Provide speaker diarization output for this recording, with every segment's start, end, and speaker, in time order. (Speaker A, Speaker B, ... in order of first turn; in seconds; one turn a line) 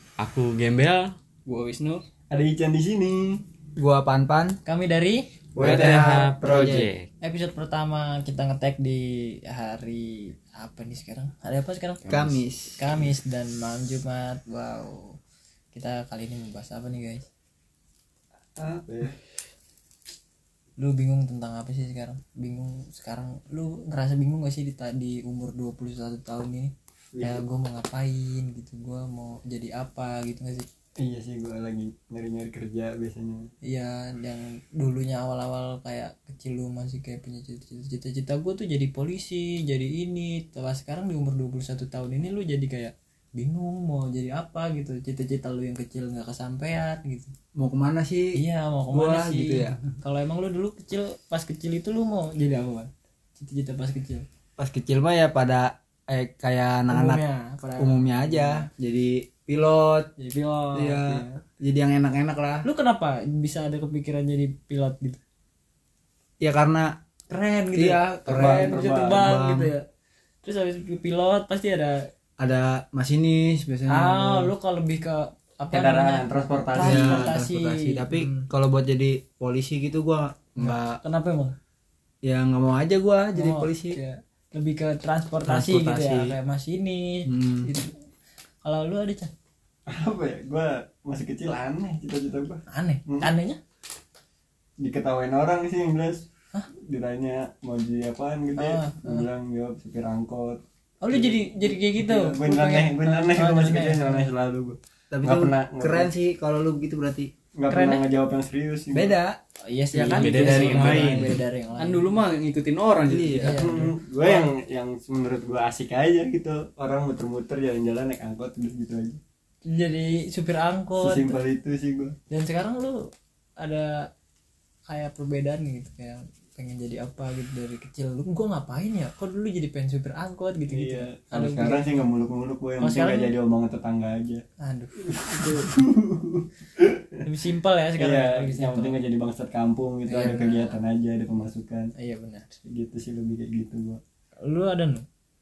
Speaker A: 0.2-1.1
Speaker B: 1.4-2.0
Speaker C: 2.3-3.4
Speaker D: 3.8-4.6
Speaker E: 4.6-5.3
Speaker C: 5.5-6.7
Speaker D: 5.5-6.9
Speaker A: 5.6-7.1
Speaker E: 7.2-12.1
Speaker D: 12.1-12.8
Speaker E: 12.8-15.2
Speaker E: 15.7-17.2
Speaker C: 18.6-19.1
Speaker E: 20.8-30.6
Speaker C: 27.1-27.4
Speaker C: 31.0-33.5
Speaker E: 33.6-47.3
Speaker D: 47.5-48.4
Speaker E: 48.3-54.2
Speaker D: 48.9-49.8
Speaker D: 54.6-57.2
Speaker E: 56.9-58.7
Speaker D: 57.8-60.1
Speaker E: 60.2-61.4
Speaker D: 60.7-62.7
Speaker E: 62.6-65.2
Speaker D: 66.4-67.0
Speaker E: 67.3-69.8
Speaker D: 67.7-69.7
Speaker C: 68.3-69.4
Speaker E: 70.4-72.1
Speaker D: 72.4-74.5
Speaker E: 73.9-78.5
Speaker C: 75.7-77.3
Speaker D: 76.8-81.0
Speaker E: 80.6-81.5
Speaker D: 82.2-84.0
Speaker E: 83.3-87.9
Speaker D: 85.4-86.3
Speaker D: 87.2-87.7
Speaker E: 88.6-89.3
Speaker C: 89.9-93.3
Speaker E: 92.7-93.6
Speaker C: 94.8-100.6
Speaker E: 98.6-99.2
Speaker E: 101.0-104.3
Speaker C: 101.1-101.4
Speaker C: 101.9-106.1
Speaker D: 105.1-107.3
Speaker C: 107.5-109.2
Speaker E: 107.7-108.0
Speaker D: 108.9-109.4
Speaker E: 109.6-112.1
Speaker D: 109.9-111.4
Speaker A: 110.1-111.4
Speaker B: 111.8-113.4
Speaker D: 113.1-113.8
Speaker E: 113.4-114.5
Speaker C: 113.5-119.2
Speaker E: 119.7-121.4
Speaker C: 121.0-122.2
Speaker E: 122.3-123.1
Speaker E: 123.6-124.1
Speaker E: 124.9-132.1
Speaker C: 130.7-134.4
Speaker E: 132.8-133.3
Speaker E: 134.6-135.8
Speaker C: 135.0-137.2
Speaker E: 137.2-139.0
Speaker C: 138.0-141.9
Speaker E: 140.1-140.8
Speaker E: 141.9-142.6
Speaker C: 142.6-144.0
Speaker E: 144.4-145.0